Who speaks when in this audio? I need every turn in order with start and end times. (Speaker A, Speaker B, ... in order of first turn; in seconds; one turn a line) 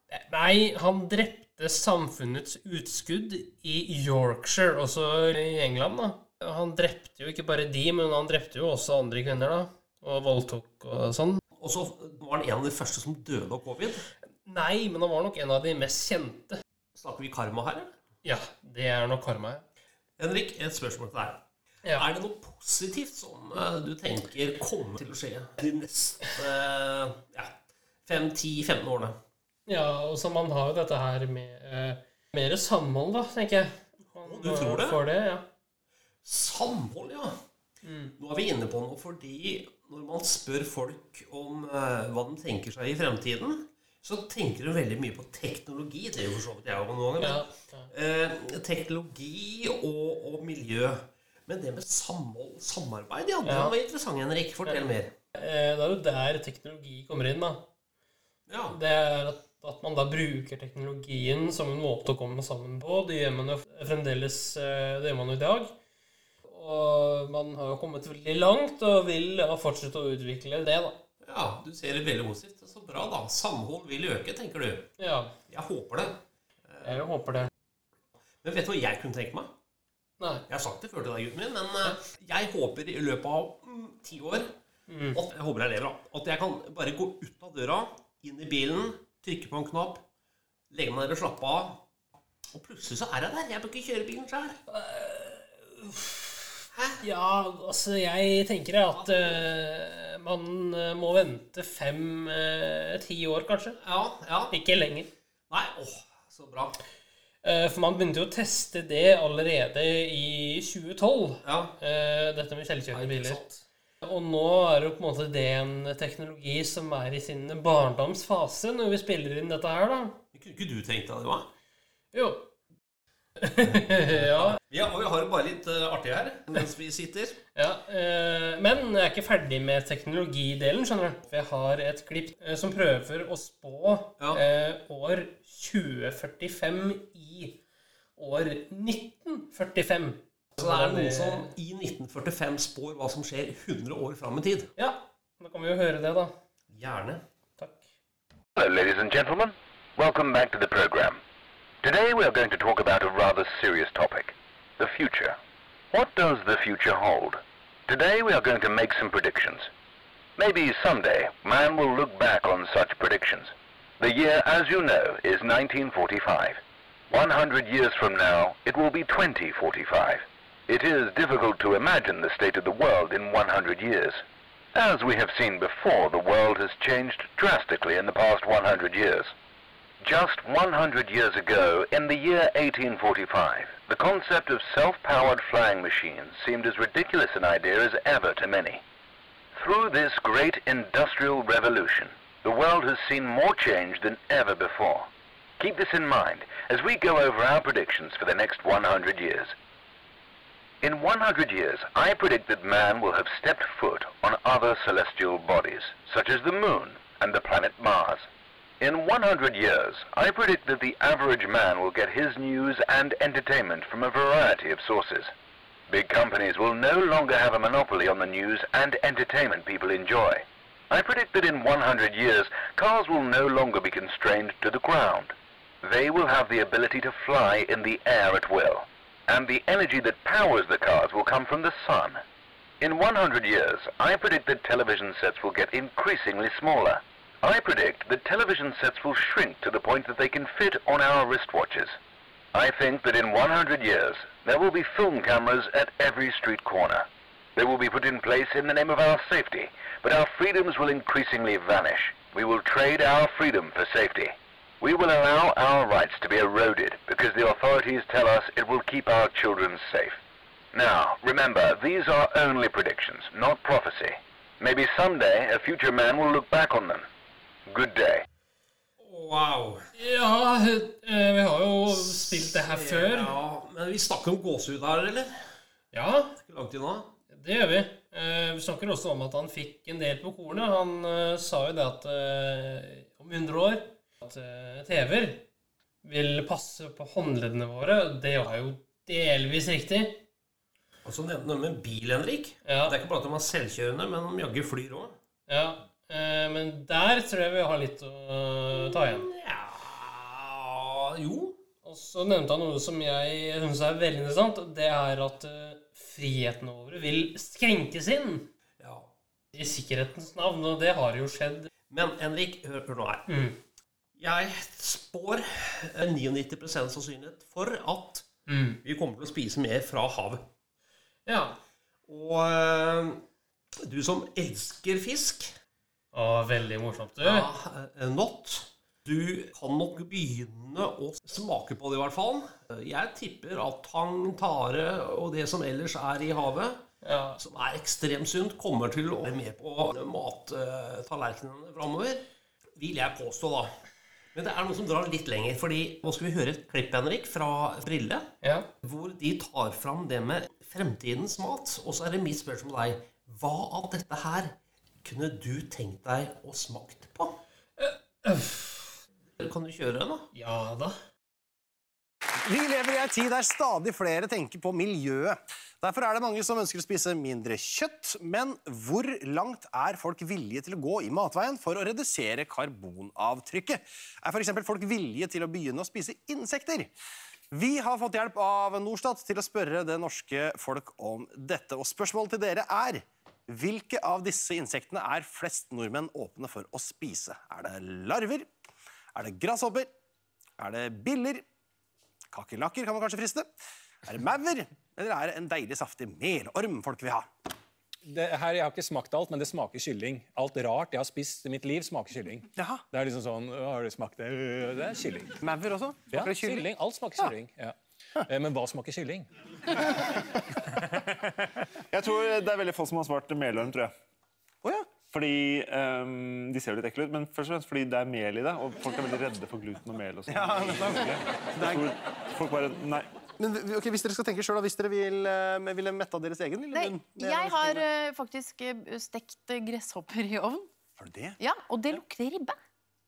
Speaker A: 0.1-11.4
Speaker B: 11.6-14.0
Speaker A: 14.4-16.6
Speaker B: 16.9-17.9
Speaker A: 18.2-19.6
Speaker B: 20.2-21.4
Speaker B: 22.0-27.5
Speaker B: 28.1-29.1
Speaker A: 29.7-35.4
Speaker B: 34.2-35.0
Speaker B: 36.2-37.4
Speaker A: 37.8-38.1
Speaker B: 38.2-55.1
Speaker A: 47.2-47.9
Speaker A: 53.5-53.8
Speaker A: 54.6-57.6
Speaker B: 58.5-58.8
Speaker A: 58.7-65.7
Speaker A: 66.5-71.0
Speaker B: 71.2-74.9
Speaker A: 75.0-75.3
Speaker B: 75.5-76.2
Speaker B: 76.7-77.0
Speaker A: 76.8-77.5
Speaker B: 78.4-79.5
Speaker A: 80.2-80.5
Speaker B: 80.5-84.5
Speaker A: 84.9-85.2
Speaker B: 85.1-90.0
Speaker B: 90.7-91.8
Speaker B: 92.5-94.6
Speaker A: 94.7-96.3
Speaker B: 96.7-97.0
Speaker A: 97.0-103.8
Speaker B: 98.9-99.3
Speaker B: 103.8-104.5
Speaker A: 104.5-105.1
Speaker B: 105.5-106.8
Speaker A: 107.4-120.2
Speaker B: 111.4-111.8
Speaker B: 112.9-113.4
Speaker B: 120.3-121.5
Speaker A: 122.1-122.5
Speaker A: 123.4-124.6
Speaker B: 124.1-127.4
Speaker A: 127.5-137.6
Speaker A: 138.2-141.5
Speaker B: 140.6-144.7
Speaker A: 144.8-146.3
Speaker B: 146.7-147.2
Speaker A: 147.6-147.9
Speaker C: 148.6-151.2
Speaker C: 151.8-155.4
Speaker C: 155.9-159.7
Speaker C: 160.4-166.6
Speaker C: 167.1-174.2
Speaker C: 174.8-179.3
Speaker C: 180.0-188.8
Speaker C: 189.6-195.1
Speaker C: 195.6-199.5
Speaker C: 200.8-208.3
Speaker C: 208.8-215.3
Speaker C: 215.9-225.3
Speaker C: 225.8-232.2
Speaker C: 232.8-241.9
Speaker C: 242.6-247.1
Speaker C: 247.6-254.3
Speaker C: 254.8-260.1
Speaker C: 260.7-267.1
Speaker C: 267.7-268.2
Speaker B: 269.0-269.8
Speaker A: 270.0-273.4
Speaker B: 271.9-275.3
Speaker A: 275.9-276.4
Speaker B: 276.4-277.1
Speaker A: 277.3-285.4
Speaker A: 286.0-290.2
Speaker B: 291.1-295.2
Speaker A: 292.6-293.0
Speaker A: 295.5-299.3
Speaker B: 298.8-301.6
Speaker A: 301.8-308.5
Speaker B: 308.8-309.1
Speaker A: 309.5-311.7
Speaker B: 311.9-313.3
Speaker A: 313.3-313.6
Speaker B: 314.2-318.3
Speaker A: 318.5-318.8
Speaker B: 318.8-320.4
Speaker A: 321.3-321.6
Speaker B: 322.1-323.2
Speaker B: 323.8-325.5
Speaker A: 326.1-327.5
Speaker B: 327.2-336.8
Speaker A: 337.0-337.4
Speaker B: 337.4-342.2
Speaker B: 342.8-343.7
Speaker B: 344.4-348.2
Speaker A: 348.4-348.7
Speaker B: 348.8-357.4
Speaker A: 357.8-359.0
Speaker B: 359.4-360.3
Speaker A: 360.3-360.9
Speaker D: 362.4-376.9
Speaker D: 377.5-388.5
Speaker D: 389.1-389.9
Speaker D: 390.6-391.4
Speaker D: 392.3-393.5
Speaker D: 394.1-397.3
Speaker E: 398.1-405.4
Speaker D: 402.6-402.8
Speaker D: 405.4-407.3
Speaker E: 406.1-409.3
Speaker E: 410.1-411.3
Speaker F: 411.9-413.9
Speaker F: 415.0-423.1
Speaker D: 420.3-421.9
Speaker D: 423.4-427.9
Speaker G: 426.7-430.7
Speaker D: 431.0-431.4
Speaker G: 431.4-432.6